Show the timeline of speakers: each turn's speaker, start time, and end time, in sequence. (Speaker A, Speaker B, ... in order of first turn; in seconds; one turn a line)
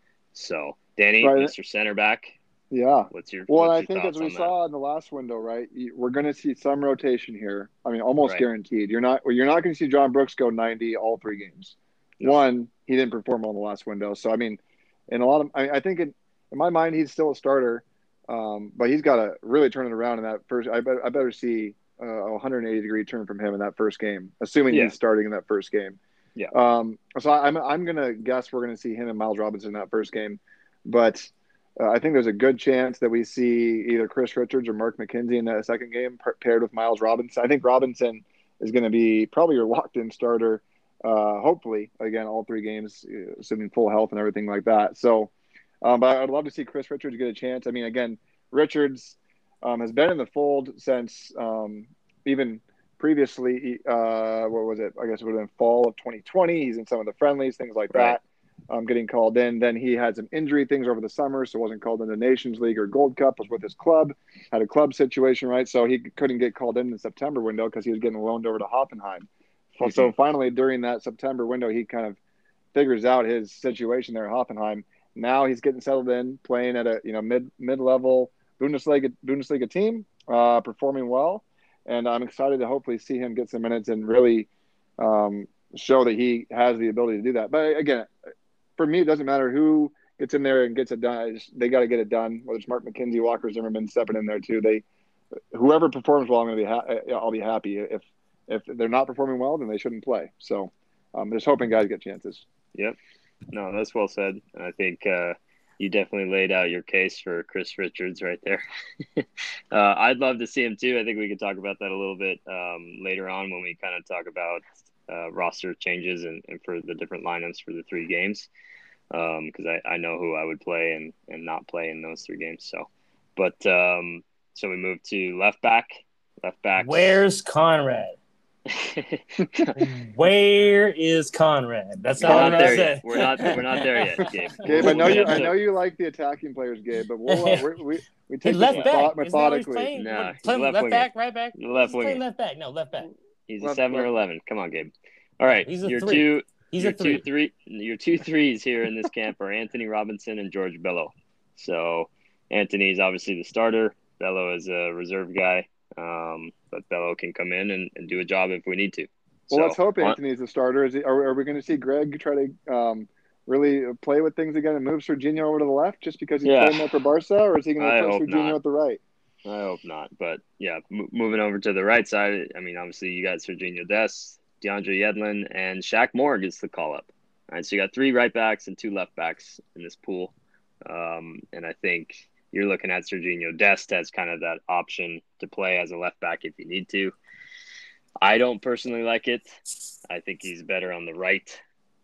Speaker A: 0.3-2.4
Speaker B: 1.2-1.5
Speaker B: 2.7-26.0
Speaker A: 3.1-4.5
Speaker A: 24.7-24.9
Speaker B: 26.5-45.3
Speaker B: 45.8-72.2
Speaker A: 57.9-58.2
Speaker A: 69.8-70.1
Speaker B: 72.7-88.1
Speaker B: 88.8-94.8
Speaker B: 95.5-102.5
Speaker A: 103.5-108.6
Speaker A: 109.2-118.5
Speaker A: 119.1-127.2
Speaker C: 126.8-128.2
Speaker A: 128.7-129.8
Speaker C: 129.8-135.4
Speaker B: 132.2-132.9
Speaker A: 132.2-135.6
Speaker B: 134.6-139.9
Speaker C: 137.3-137.7
Speaker C: 138.4-143.1
Speaker A: 139.9-142.2
Speaker A: 143.5-160.2
Speaker B: 143.6-144.1
Speaker C: 145.5-147.2
Speaker B: 159.5-169.0
Speaker A: 166.4-166.9
Speaker A: 167.8-168.6
Speaker A: 169.4-180.3
Speaker A: 180.8-187.2
Speaker A: 188.2-191.6